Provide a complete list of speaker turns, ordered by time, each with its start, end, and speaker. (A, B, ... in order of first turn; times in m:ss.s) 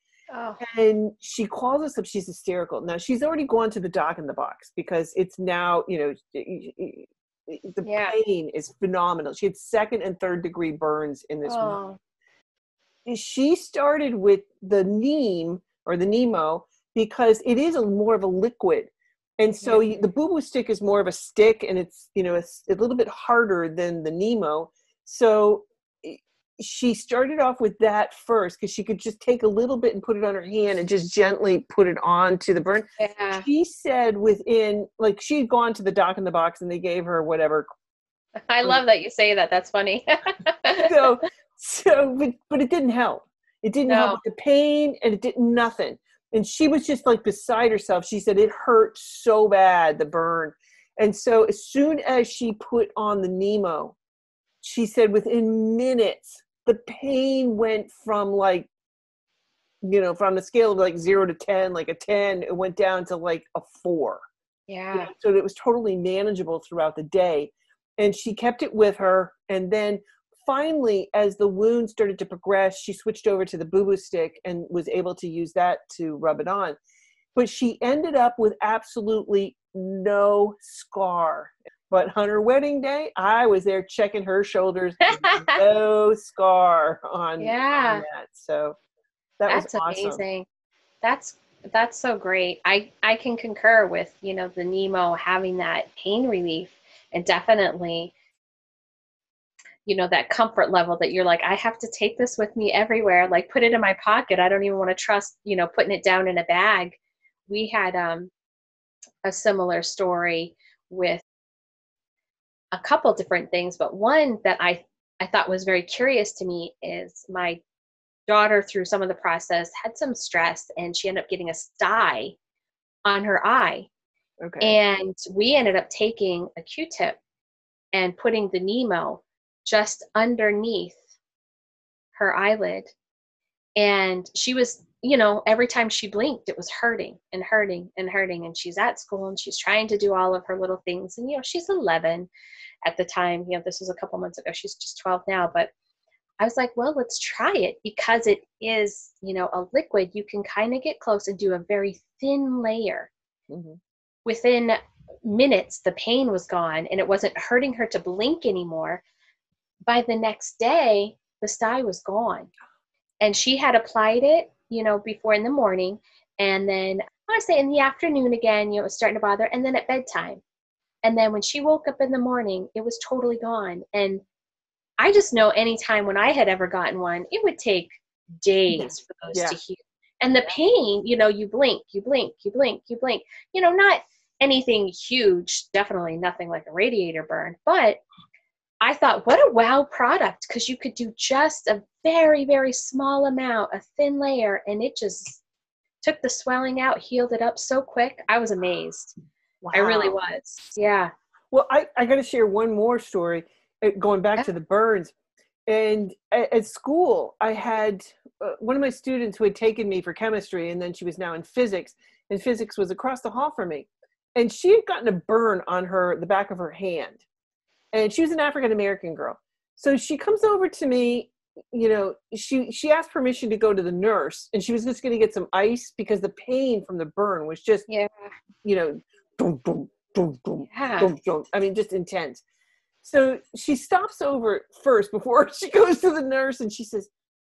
0:00.3-0:00.6 A
0:00.6-0:11.8 B
0:07.8-0:08.2 A
0:11.4-0:12.0 A
0:13.0-0:37.7 B
0:19.6-0:20.0 A
0:33.0-0:33.4 A
0:38.5-0:41.0 A
0:40.8-0:54.0 B
0:43.9-0:44.2 A
0:54.6-0:58.7 B
0:59.8-1:04.2 B
1:04.7-1:05.1 A
1:04.9-1:16.8 B
1:17.4-1:28.8 B
1:25.2-1:25.6 A
1:27.4-1:28.0 A
1:29.4-1:30.2 B
1:29.5-1:30.5 A
1:31.0-1:38.1 A
1:39.9-1:47.0 A
1:47.5-1:48.3 A
1:49.2-1:51.2 A
1:52.7-1:57.6 A
1:58.3-2:02.4 A
2:03.0-2:03.9 A
2:04.4-2:04.8 B
2:04.6-2:07.2 A
2:07.9-2:11.0 A
2:12.1-2:12.9 A
2:13.8-2:22.3 A
2:22.8-2:25.7 A
2:26.4-2:33.1 A
2:33.5-2:33.8 B
2:34.2-2:39.0 A
2:39.9-2:42.5 A
2:43.2-2:50.4 A
2:51.0-2:54.2 A
2:55.0-3:08.0 A
2:58.7-2:59.6 B
3:08.8-3:15.4 A
3:16.0-3:19.1 A
3:19.6-3:20.2 B
3:19.7-3:21.1 A
3:21.5-3:25.1 B
3:25.7-3:37.2 B
3:37.9-3:47.9 B
3:47.9-3:48.3 A
3:48.6-3:52.4 B
3:50.7-3:51.1 A
3:53.0-3:57.1 B